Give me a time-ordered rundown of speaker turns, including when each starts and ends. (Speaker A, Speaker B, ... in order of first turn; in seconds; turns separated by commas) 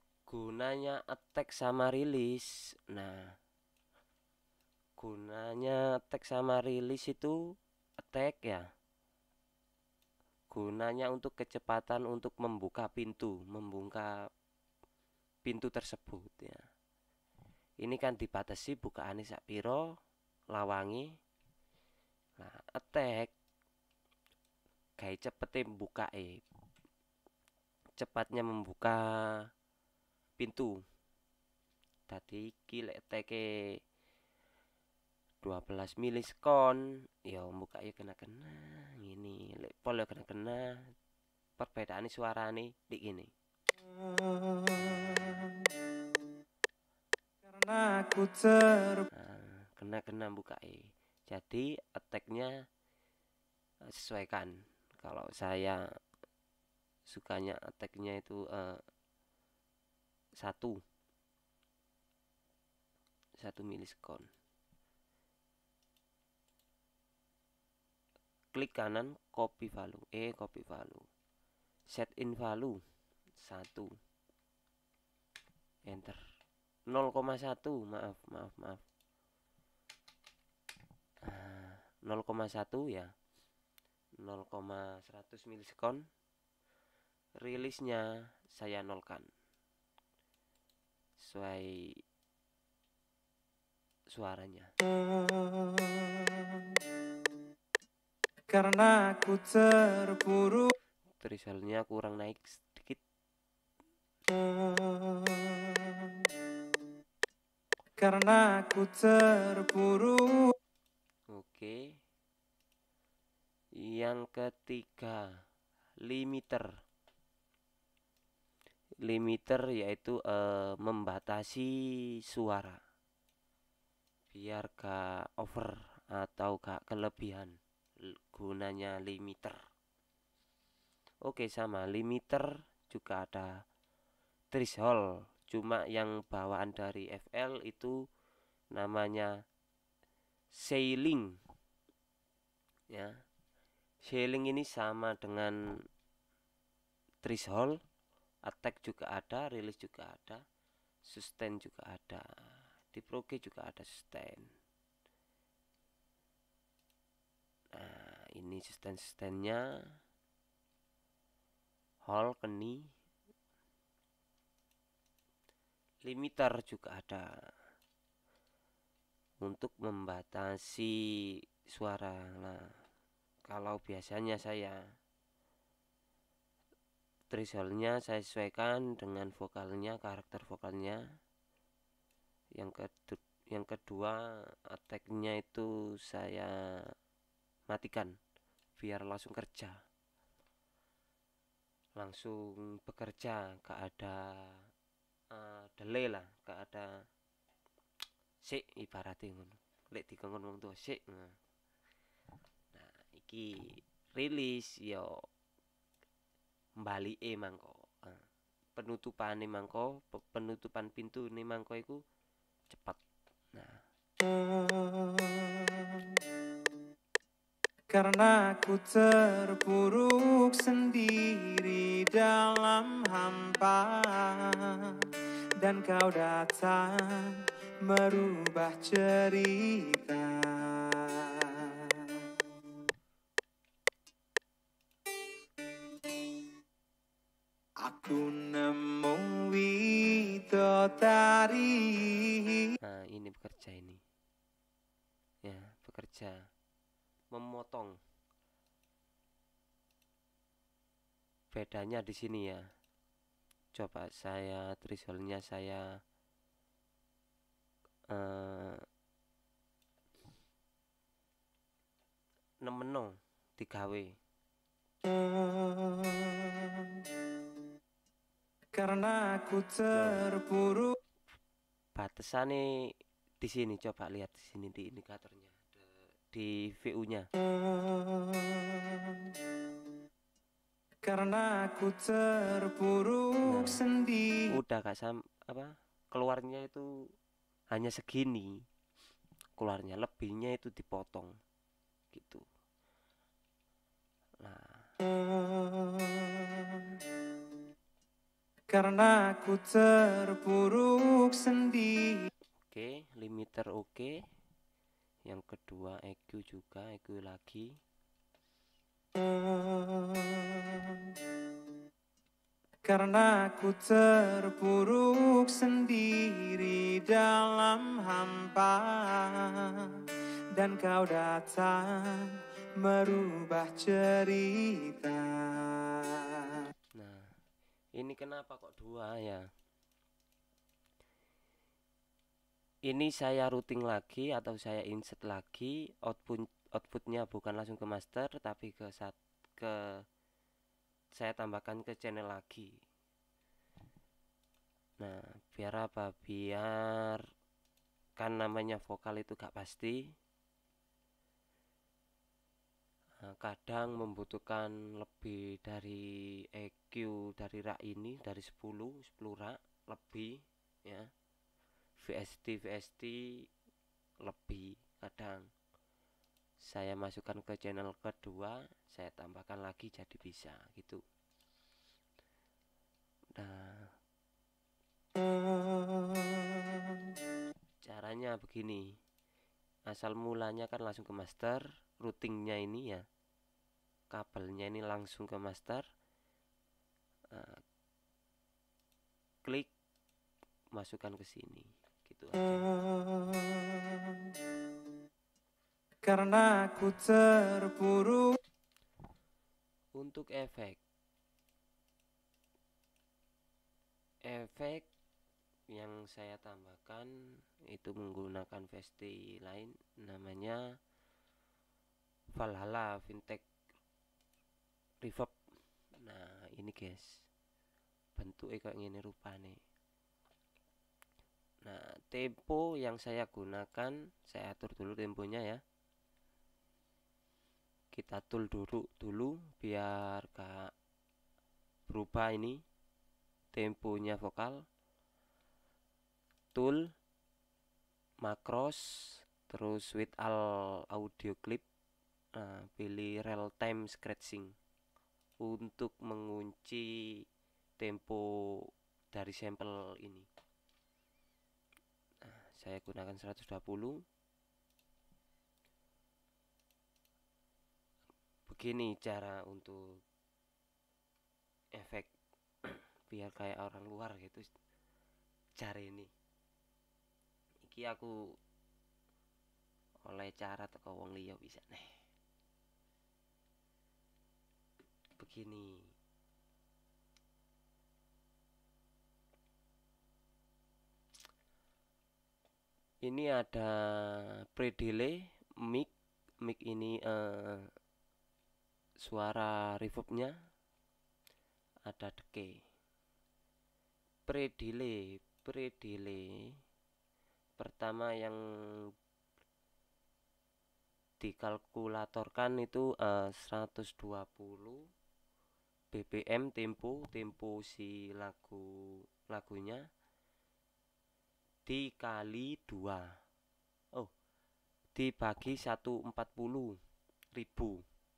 Speaker A: 0.3-3.3, Speaker A: 5.0-7.4, Speaker A: 8.0-8.7, Speaker A: 10.5-14.1, Speaker A: 15.4-16.6, Speaker A: 17.8-19.9, Speaker A: 20.5-21.1, Speaker A: 22.4-23.3, Speaker A: 25.0-26.4, Speaker A: 28.0-29.0, Speaker A: 30.4-30.8, Speaker A: 32.1-33.4, Speaker A: 35.4-40.9, Speaker A: 41.6-43.3, Speaker A: 44.8-45.4, Speaker B: 47.4-49.1, Speaker A: 49.1-52.5, Speaker A: 53.9-55.8, Speaker A: 57.1-58.8, Speaker A: 60.4-60.8, Speaker A: 63.4-64.3, Speaker A: 68.5-71.0, Speaker A: 71.9-72.8, Speaker A: 73.4-73.9, Speaker A: 75.9-76.2, Speaker A: 76.9-78.8, Speaker A: 81.2-83.1, Speaker A: 84.2-86.0, Speaker A: 87.4-89.3, Speaker A: 91.2-92.0, Speaker A: 94.1-94.7, Speaker B: 98.5-100.7, Speaker A: 101.2-103.0, Speaker B: 108.0-110.5, Speaker A: 111.3-111.8, Speaker A: 113.9-115.2, Speaker A: 116.0-116.7, Speaker A: 119.0-122.8, Speaker A: 124.3-129.6, Speaker A: 131.2-133.5, Speaker A: 134.5-138.0, Speaker A: 138.8-139.3, Speaker A: 140.6-141.3, Speaker A: 144.1-145.6, Speaker A: 147.2-147.8, Speaker A: 148.5-150.4, Speaker A: 151.1-152.3, Speaker A: 152.9-154.5, Speaker A: 157.8-159.6, Speaker A: 162.1-162.9, Speaker A: 166.1-167.3, Speaker A: 169.4-171.0, Speaker A: 171.7-172.7, Speaker A: 173.5-174.8, Speaker A: 177.3-181.0, Speaker A: 182.6-184.2, Speaker A: 184.7-186.9, Speaker A: 187.7-188.1, Speaker A: 188.8-189.8, Speaker A: 192.0-194.6, Speaker A: 195.3-196.9, Speaker A: 198.4-201.4, Speaker A: 202.7-205.1, Speaker A: 206.8-208.2, Speaker A: 208.8-212.0, Speaker A: 212.7-213.0, Speaker A: 213.5-213.8, Speaker B: 214.5-216.2, Speaker B: 217.9-225.1, Speaker B: 225.6-232.3, Speaker B: 237.8-242.8, Speaker A: 242.8-244.0, Speaker A: 245.4-246.4, Speaker A: 247.3-247.9, Speaker A: 251.5-252.6, Speaker A: 253.8-255.8, Speaker A: 258.1-258.8, Speaker A: 262.6-264.1, Speaker B: 265.4-267.0, Speaker B: 268.8-271.0, Speaker A: 269.9-270.2, Speaker A: 272.0-272.6, Speaker A: 273.4-277.3, Speaker B: 278.1-279.2, Speaker B: 281.1-284.4, Speaker A: 283.5-283.8, Speaker A: 284.6-286.9, Speaker A: 287.7-288.6, Speaker A: 289.6-291.4, Speaker A: 292.1-292.4, Speaker A: 294.4-294.9, Speaker B: 298.7-302.3, Speaker A: 302.7-304.1, Speaker A: 305.3-307.7, Speaker B: 309.4-311.1, Speaker B: 312.9-326.6, Speaker A: 327.0-327.3, Speaker A: 328.0-329.5, Speaker A: 332.9-339.8, Speaker A: 341.2-342.7, Speaker A: 345.0-347.2, Speaker A: 348.2-350.0, Speaker A: 353.2-361.1, Speaker A: 362.0-363.3, Speaker A: 364.2-365.4, Speaker A: 366.7-371.0, Speaker A: 373.4-373.9, Speaker A: 377.8-378.9, Speaker A: 379.9-383.1, Speaker A: 384.1-385.9, Speaker A: 387.3-387.6, Speaker A: 389.4-389.7, Speaker A: 390.8-392.7, Speaker B: 396.0-398.4, Speaker A: 399.9-400.8, Speaker A: 404.3-404.9, Speaker A: 405.7-407.1, Speaker A: 407.7-410.6, Speaker A: 412.4-413.4, Speaker A: 415.0-415.3, Speaker A: 416.0-417.1, Speaker A: 418.2-419.6, Speaker A: 421.7-425.6, Speaker A: 427.9-430.7, Speaker A: 431.9-432.6, Speaker A: 433.6-434.6, Speaker A: 436.6-436.9, Speaker A: 438.2-438.8, Speaker A: 439.5-441.6, Speaker A: 442.4-444.5, Speaker A: 445.4-446.9, Speaker A: 447.8-448.2, Speaker A: 449.1-450.3, Speaker A: 452.2-454.0, Speaker A: 458.5-459.8, Speaker A: 461.8-462.1, Speaker A: 462.6-464.5, Speaker A: 465.6-466.1, Speaker A: 467.6-468.1, Speaker A: 470.1-471.9, Speaker A: 475.2-475.9, Speaker A: 483.1-485.9, Speaker A: 486.4-487.7, Speaker A: 489.1-490.3, Speaker A: 491.9-492.5, Speaker A: 494.3-496.3, Speaker A: 497.6-498.4, Speaker A: 501.2-504.8, Speaker A: 505.9-508.7, Speaker A: 509.3-509.9, Speaker A: 511.7-513.0, Speaker A: 515.0-516.8, Speaker A: 517.4-517.8